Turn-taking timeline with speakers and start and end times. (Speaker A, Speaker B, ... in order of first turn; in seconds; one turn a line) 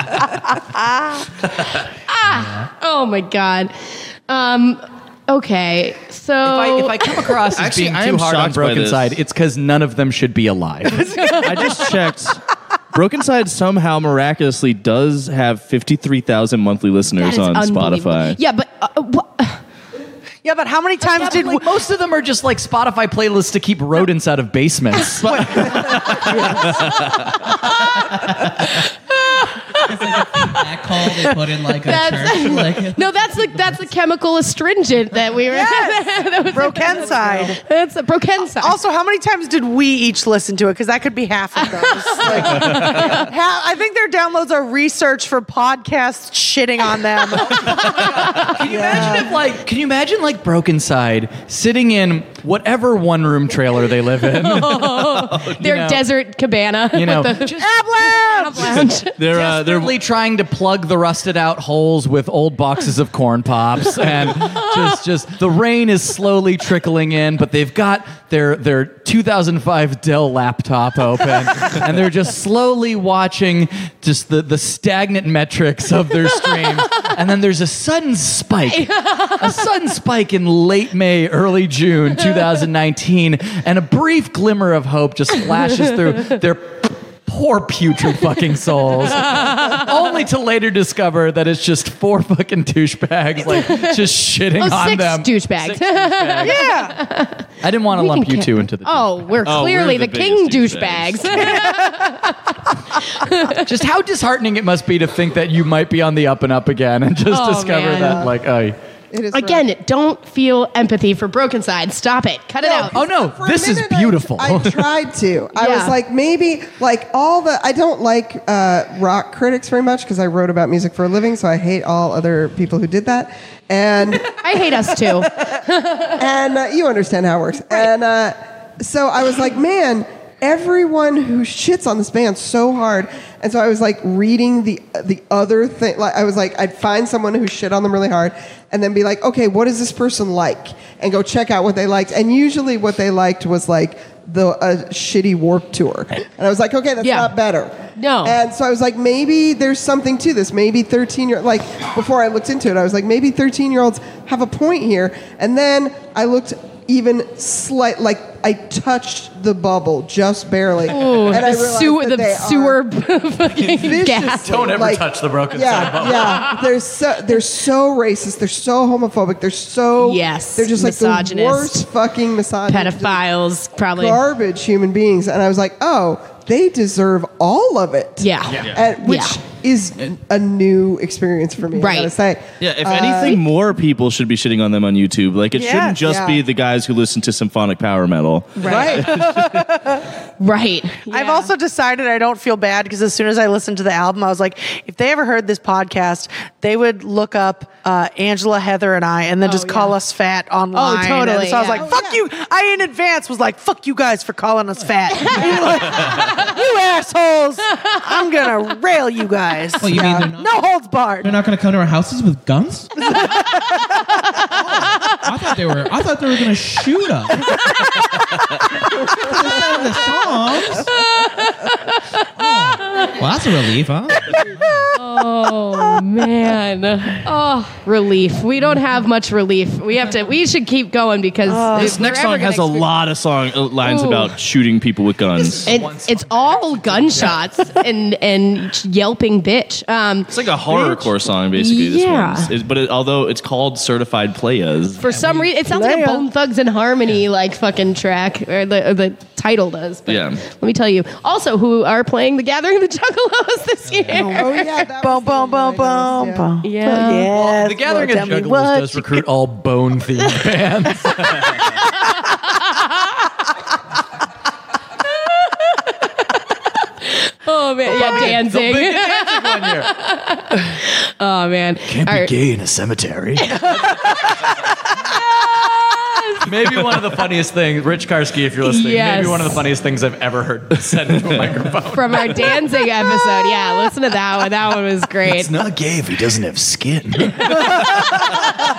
Speaker A: 2.1-7.3
Speaker B: 2.2-2.7
Speaker C: 6.4-11.3
Speaker D: 7.5-9.2
Speaker E: 10.9-11.8
Speaker D: 11.3-18.4
Speaker A: 17.2-19.6
Speaker E: 20.4-21.7
Speaker C: 21.0-26.3
Speaker D: 25.0-27.5
Speaker A: 27.7-28.0
Speaker B: 28.3-28.7
Speaker A: 28.6-30.6
Speaker B: 29.7-33.9
Speaker A: 31.8-38.8
Speaker E: 35.5-37.6
Speaker E: 38.5-47.9
Speaker A: 41.6-43.3
Speaker F: 41.7-42.8
Speaker D: 42.4-43.1
Speaker A: 47.5-48.6
Speaker C: 47.7-56.1
Speaker D: 47.7-48.1
Speaker F: 48.6-49.3
Speaker A: 54.3-59.2
Speaker C: 56.9-96.6
Speaker E: 57.5-58.6
Speaker D: 58.6-59.9
Speaker A: 78.7-79.6
Speaker A: 89.1-89.9
Speaker A: 93.5-94.0
Speaker A: 94.6-102.5
Speaker E: 96.4-97.0
Speaker C: 97.6-99.5
Speaker D: 99.4-101.7
Speaker E: 101.4-101.8
Speaker A: 103.1-103.7
Speaker C: 103.6-108.8
Speaker A: 107.3-108.3
Speaker F: 107.9-108.3
Speaker F: 109.1-109.7
Speaker A: 109.3-113.0
Speaker F: 112.6-124.3
Speaker C: 112.9-114.8
Speaker A: 115.5-115.9
Speaker A: 124.3-126.2
Speaker F: 126.2-162.8
Speaker A: 147.0-147.3
Speaker A: 148.0-148.4
Speaker A: 160.9-164.7
Speaker F: 163.7-173.2
Speaker C: 164.4-166.5
Speaker A: 166.1-166.6
Speaker A: 170.0-171.8
Speaker A: 172.7-174.2
Speaker F: 173.9-183.4
Speaker A: 178.2-179.4
Speaker A: 181.7-182.1
Speaker D: 182.6-189.8
Speaker E: 185.5-186.0
Speaker F: 186.0-186.4
Speaker A: 188.6-189.1
Speaker F: 188.6-189.3
Speaker E: 189.4-190.0
Speaker A: 190.4-191.5
Speaker E: 191.1-211.4
Speaker A: 199.4-199.9
Speaker A: 200.7-201.9
Speaker F: 201.8-202.2
Speaker A: 205.1-205.5
Speaker B: 206.1-206.3
Speaker B: 209.8-210.5
Speaker F: 209.8-210.3
Speaker B: 211.2-213.1
Speaker E: 213.1-213.8
Speaker B: 214.5-217.5
Speaker B: 219.1-220.9
Speaker A: 220.9-222.2
Speaker B: 222.4-224.9
Speaker A: 222.8-223.1
Speaker A: 224.9-232.9
Speaker E: 231.4-232.1
Speaker D: 231.7-235.7
Speaker A: 233.8-234.3
Speaker C: 235.3-237.4
Speaker A: 235.6-240.3
Speaker D: 240.3-245.0
Speaker E: 240.7-241.1
Speaker A: 241.6-242.5
Speaker A: 245.0-254.7
Speaker B: 245.1-245.5
Speaker E: 245.6-246.2
Speaker D: 250.1-250.4
Speaker B: 253.8-254.3
Speaker E: 254.1-259.2
Speaker F: 254.3-256.5
Speaker A: 256.6-257.3
Speaker C: 257.3-261.7
Speaker A: 261.0-261.9
Speaker A: 262.6-262.9
Speaker A: 265.2-266.3
Speaker A: 267.0-272.3
Speaker C: 267.9-269.9
Speaker C: 271.9-274.2
Speaker A: 273.4-274.3
Speaker A: 275.5-276.4
Speaker C: 276.4-282.6
Speaker A: 278.6-279.6
Speaker A: 281.9-285.6
Speaker C: 285.2-288.1